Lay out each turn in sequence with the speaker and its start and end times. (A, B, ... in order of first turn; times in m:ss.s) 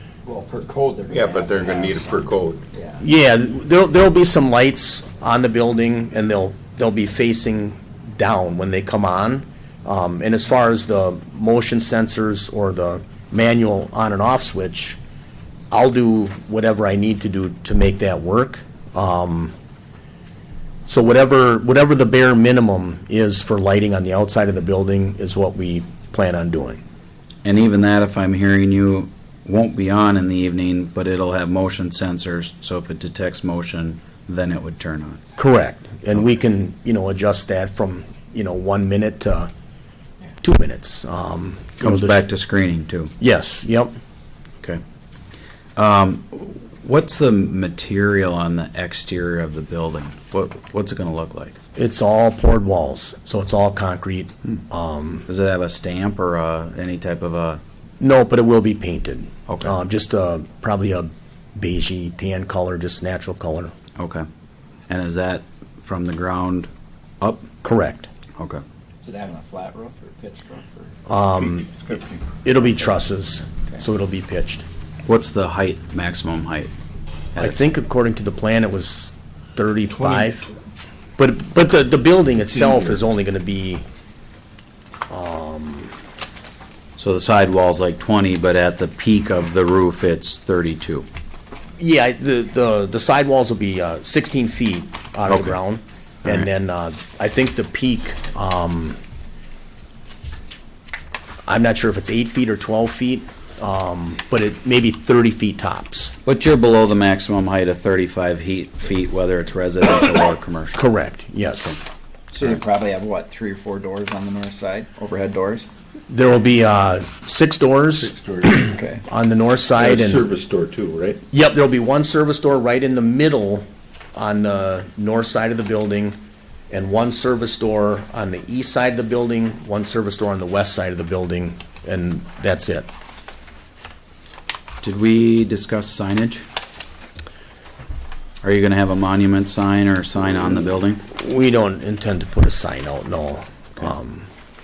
0:00.2-0:03.0 A
0:01.1-0:02.6 B
0:03.0-0:15.0 C
0:15.7-0:19.5 C
0:20.9-0:26.8 C
0:27.4-0:35.2 D
0:35.4-0:39.5 C
0:40.4-0:42.2 C
0:41.8-0:43.1 D
0:43.2-0:43.9 C
0:45.8-0:51.6 D
0:51.8-0:55.2 C
0:55.3-0:57.6 D
0:58.0-1:03.7 C
0:59.5-0:59.7 D
1:04.0-1:04.2 D
1:04.9-1:06.7 D
1:07.2-1:07.5 D
1:07.6-1:08.1 C
1:08.4-1:08.6 D
1:09.0-1:10.9 A
1:11.1-1:11.7 C
1:11.6-1:12.2 B
1:12.4-1:14.6 C
1:15.1-1:16.7 D
1:17.3-1:17.7 D
1:17.4-1:20.5 C
1:21.2-1:23.8 C
1:22.6-1:23.0 B
1:25.1-1:25.9 C
1:27.0-1:31.1 D
1:31.8-1:39.0 C
1:35.3-1:35.6 D
1:41.5-1:46.1 C
1:46.2-1:50.8 D
1:50.8-1:51.8 C
1:52.3-1:55.7 A
1:56.1-2:00.3 C
1:58.0-1:58.7 B
1:58.5-1:59.0 A
1:59.8-2:01.2 B
2:01.3-2:06.2 C
2:06.7-2:12.9 C
2:14.8-2:16.4 D
2:18.4-2:21.0 D
2:21.1-2:24.3 C